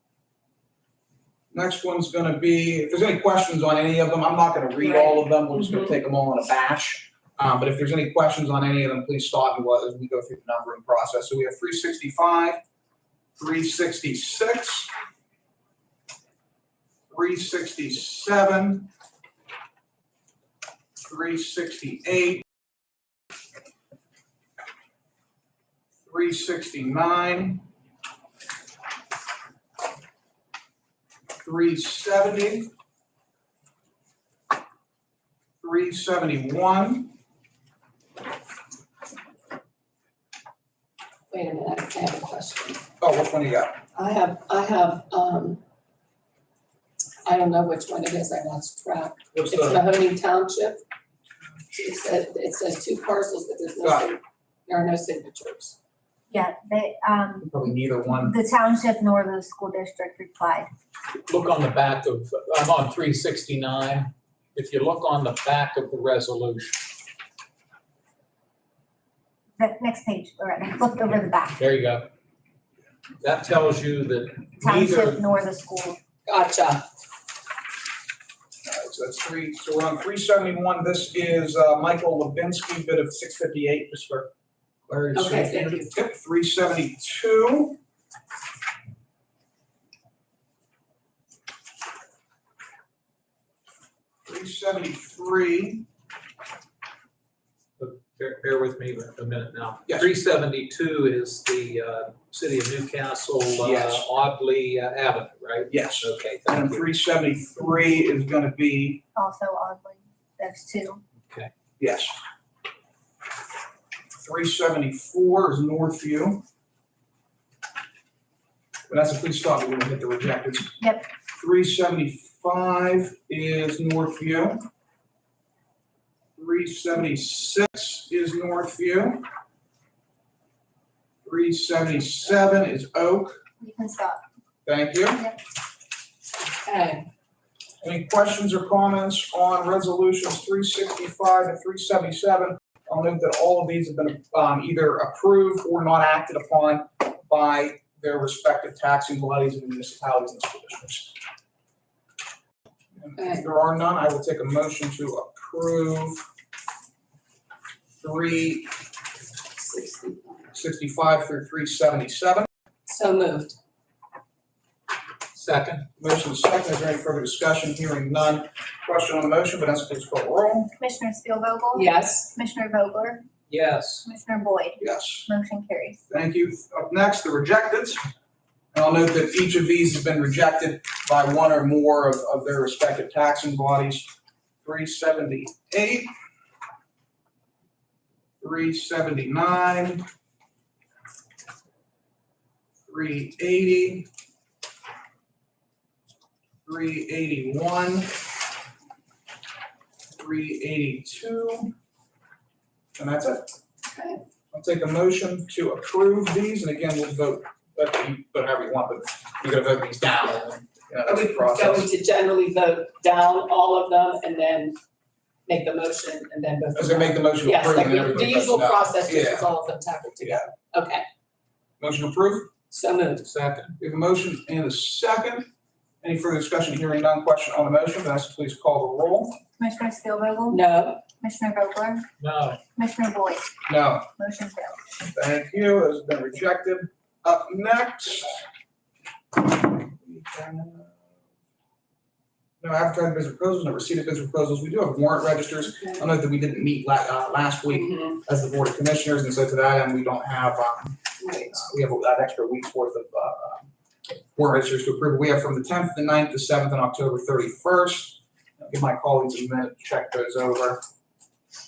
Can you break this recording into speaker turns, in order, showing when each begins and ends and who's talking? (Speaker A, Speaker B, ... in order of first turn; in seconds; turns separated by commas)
Speaker A: 1.5-12.6, Speaker B: 4.8-5.9, Speaker A: 13.4-14.9, Speaker A: 17.1-18.9, Speaker A: 21.0-22.4, Speaker A: 26.0-27.6, Speaker A: 31.4-32.7, Speaker A: 35.6-37.1, Speaker B: 41.3-42.8, Speaker A: 43.0-43.8, Speaker B: 43.9-45.6, Speaker B: 47.2-50.8, Speaker A: 49.3-49.8, Speaker B: 51.7-55.8, Speaker A: 53.8-54.1, Speaker C: 56.3-57.5, Speaker A: 57.4-58.3, Speaker C: 58.1-60.7, Speaker D: 61.3-66.8, Speaker C: 69.6-71.6, Speaker D: 71.5-72.1, Speaker D: 73.2-75.2, Speaker C: 74.6-76.0, Speaker B: 76.2-76.8, Speaker A: 78.6-84.3, Speaker A: 84.9-87.8, Speaker B: 85.1-85.9, Speaker A: 94.2-95.8, Speaker D: 97.8-106.9, Speaker A: 103.6-104.1, Speaker A: 105.7-109.0, Speaker C: 109.1-111.0, Speaker D: 111.2-111.5, Speaker A: 111.8-112.2, Speaker A: 114.2-116.4, Speaker A: 118.9-124.6, Speaker C: 120.8-121.0, Speaker A: 126.4-129.2, Speaker A: 131.2-133.3, Speaker C: 133.6-134.2, Speaker A: 134.7-135.3, Speaker B: 136.6-137.1, Speaker A: 137.8-151.2, Speaker A: 152.9-156.2, Speaker B: 153.2-153.4, Speaker A: 158.0-158.7, Speaker B: 159.6-160.5, Speaker A: 160.5-162.5, Speaker B: 162.9-163.6, Speaker D: 165.3-165.8, Speaker A: 166.0-170.7, Speaker C: 170.8-173.2, Speaker B: 171.7-172.3, Speaker D: 173.5-174.1, Speaker C: 174.0-176.0, Speaker A: 174.8-175.3, Speaker A: 176.1-178.0, Speaker A: 178.7-186.1, Speaker A: 188.4-190.0, Speaker A: 192.8-194.1, Speaker A: 196.6-198.1, Speaker A: 200.1-201.7, Speaker A: 202.9-203.5, Speaker B: 203.8-204.2, Speaker A: 204.5-211.9, Speaker B: 211.0-214.8, Speaker B: 215.4-221.0, Speaker A: 216.7-219.5, Speaker A: 221.8-222.5, Speaker B: 222.7-223.3, Speaker D: 223.2-223.8, Speaker A: 223.8-225.5, Speaker A: 226.0-229.4, Speaker C: 229.6-230.6, Speaker B: 230.5-231.0, Speaker C: 231.2-232.1, Speaker D: 232.2-232.6, Speaker C: 232.7-233.5, Speaker A: 233.7-234.1, Speaker C: 234.2-234.8, Speaker A: 235.1-238.4, Speaker A: 239.6-241.0, Speaker A: 242.6-253.7, Speaker B: 245.7-246.0, Speaker B: 247.7-248.1, Speaker B: 251.2-251.6, Speaker A: 254.3-260.8